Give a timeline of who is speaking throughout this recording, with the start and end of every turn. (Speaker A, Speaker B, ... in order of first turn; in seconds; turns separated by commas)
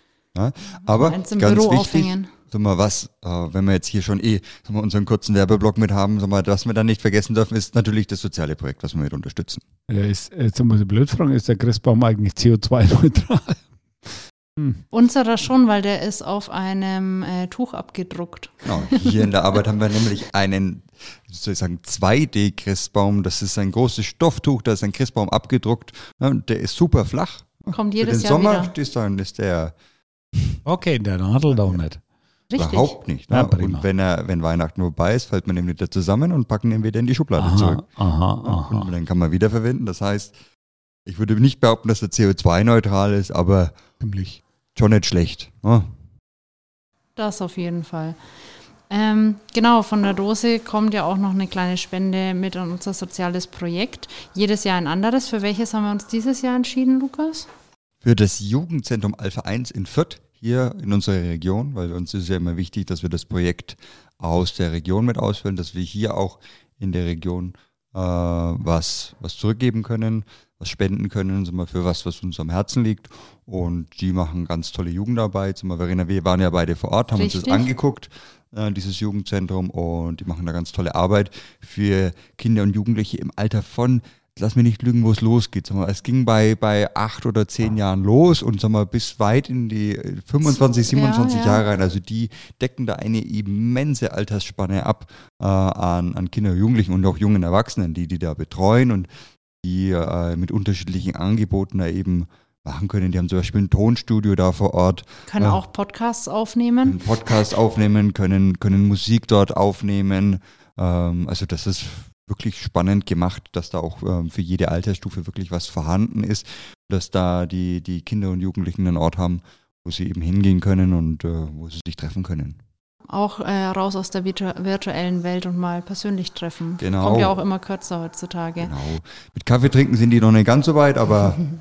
Speaker A: 0.3-9.7, Speaker B: 0.9-2.3, Speaker C: 9.9-14.8, Speaker B: 14.9-19.2, Speaker A: 18.6-29.8, Speaker B: 27.7-28.7, Speaker A: 30.3-30.6, Speaker C: 30.6-32.0, Speaker B: 32.5-33.0, Speaker A: 32.6-37.9, Speaker C: 33.3-33.9, Speaker C: 37.4-38.9, Speaker A: 38.4-40.4, Speaker A: 41.1-43.8, Speaker C: 44.0-44.4, Speaker A: 44.8-45.9, Speaker B: 47.2-48.2, Speaker B: 48.9-57.5, Speaker A: 58.0-99.1, Speaker B: 77.2-77.7, Speaker B: 90.5-91.6, Speaker A: 99.6-105.6, Speaker B: 105.3-107.0, Speaker A: 106.8-122.6, Speaker B: 123.1-128.7, Speaker A: 126.8-127.4, Speaker A: 128.6-131.4